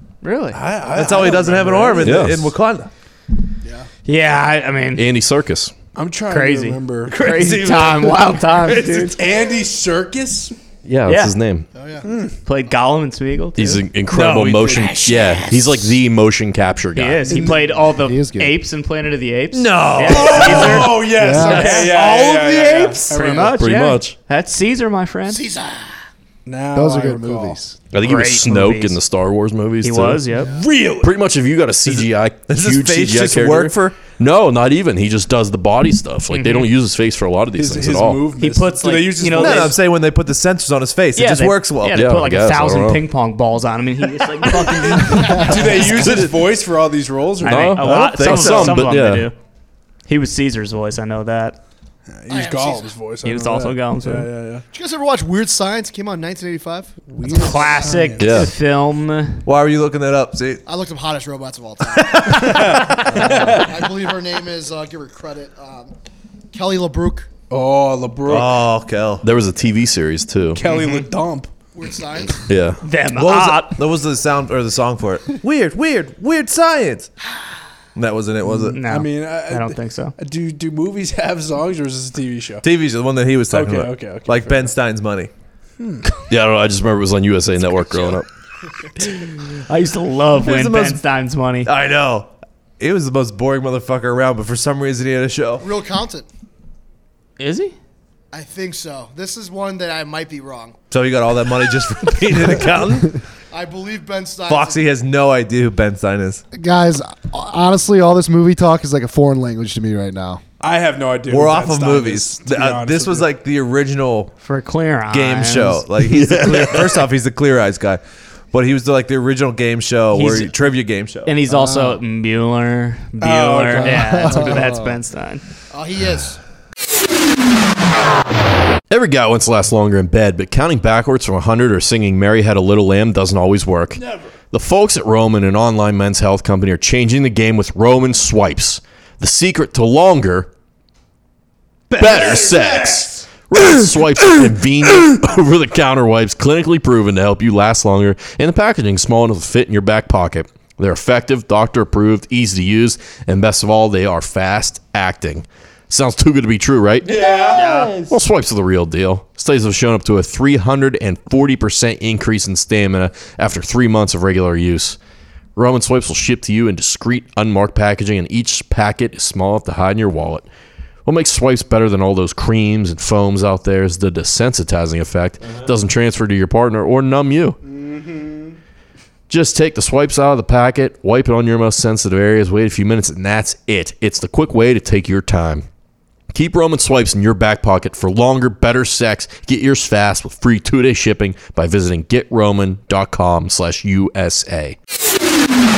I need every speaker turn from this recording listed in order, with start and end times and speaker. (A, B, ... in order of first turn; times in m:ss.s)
0:00.2-0:00.6 A
0:00.5-0:02.4 B
0:00.9-0:02.9 C
0:02.0-0:02.5 D
0:04.0-0:05.0 A
0:05.0-0:05.7 D
0:06.0-0:07.3 B
0:06.3-0:09.2 A
0:07.1-0:09.2 C
0:08.7-0:10.5 B
0:10.8-0:11.7 D
0:11.1-0:11.4 A
0:11.7-0:12.1 E
0:12.0-0:12.4 B
0:12.4-0:15.1 A
0:13.6-0:17.4 D
0:14.2-0:15.4 C
0:17.0-0:22.4 A
0:17.2-0:18.6 F
0:17.4-0:17.6 B
0:19.5-0:23.0 C
0:20.1-0:23.7 B
0:21.0-0:21.7 F
0:23.0-0:25.4 A
0:23.4-0:24.2 D
0:25.3-0:26.0 E
0:26.5-0:27.6 B
0:26.7-0:27.8 F
0:27.9-0:30.2 D
0:28.0-0:29.0 A
0:29.8-0:30.5 A
0:30.4-0:31.2 B
0:31.0-0:38.3 D
0:31.9-0:34.0 C
0:36.3-0:36.7 A
0:37.6-0:39.8 B
0:38.4-0:39.8 A
0:39.4-0:42.0 C
0:41.2-0:46.2 A
0:41.9-0:43.0 D
0:45.1-0:45.5 E
0:45.3-0:48.1 B
0:45.9-0:46.4 D
0:47.4-0:49.4 A
0:47.4-0:49.3 D
0:48.2-0:48.9 C
0:50.1-0:51.6 A
0:52.1-0:54.6 B
0:52.3-0:53.0 E
0:53.2-0:54.3 A
0:54.7-0:58.0 E
0:57.2-0:58.4 B
0:57.2-0:59.4 A
0:58.2-0:58.5 D
0:59.4-1:00.6 C
1:00.7-1:05.9 E
1:02.0-1:03.2 C
1:02.3-1:03.7 B
1:06.5-1:07.3 E
1:07.5-1:08.6 B
1:08.3-1:09.3 C
1:09.2-1:10.6 D
1:10.6-1:11.5 B
1:10.7-1:11.1 A
1:11.8-1:12.4 E
1:12.5-1:12.8 D
1:12.8-1:13.8 A
1:13.1-1:17.1 C
1:18.0-1:18.8 C
1:18.5-1:22.6 B
1:18.7-1:20.1 A
1:22.6-1:25.3 C
1:23.5-1:24.8 B
1:25.8-1:26.1 B
1:26.3-1:28.2 D
1:29.1-1:31.7 A
1:30.4-1:31.0 C
1:31.6-1:35.6 C
1:35.6-1:36.3 E
1:37.4-1:37.8 A
1:38.3-1:40.8 E
1:40.9-1:43.2 C
1:43.5-1:44.8 E
1:44.5-1:46.4 C
1:46.5-1:50.4 F
1:50.6-1:53.3 B
1:51.3-1:54.3 C
1:54.4-1:55.8 A
1:55.1-2:01.3 C
1:56.1-1:57.0 D
2:00.1-2:00.5 A
2:01.2-2:05.4 A
2:01.5-2:02.0 F
2:03.2-2:04.6 B
2:03.8-2:05.0 F
2:05.7-2:06.4 E
2:08.9-2:20.5 D
2:14.0-2:14.3 B
2:21.9-2:45.0 D
2:22.0-2:23.2 B
2:37.0-2:38.0 B
2:37.6-2:37.9 A
2:45.6-2:50.5 D
2:51.0-2:57.6 D
2:57.6-2:58.6 B
2:59.3-3:05.6 D
3:06.3-3:14.8 D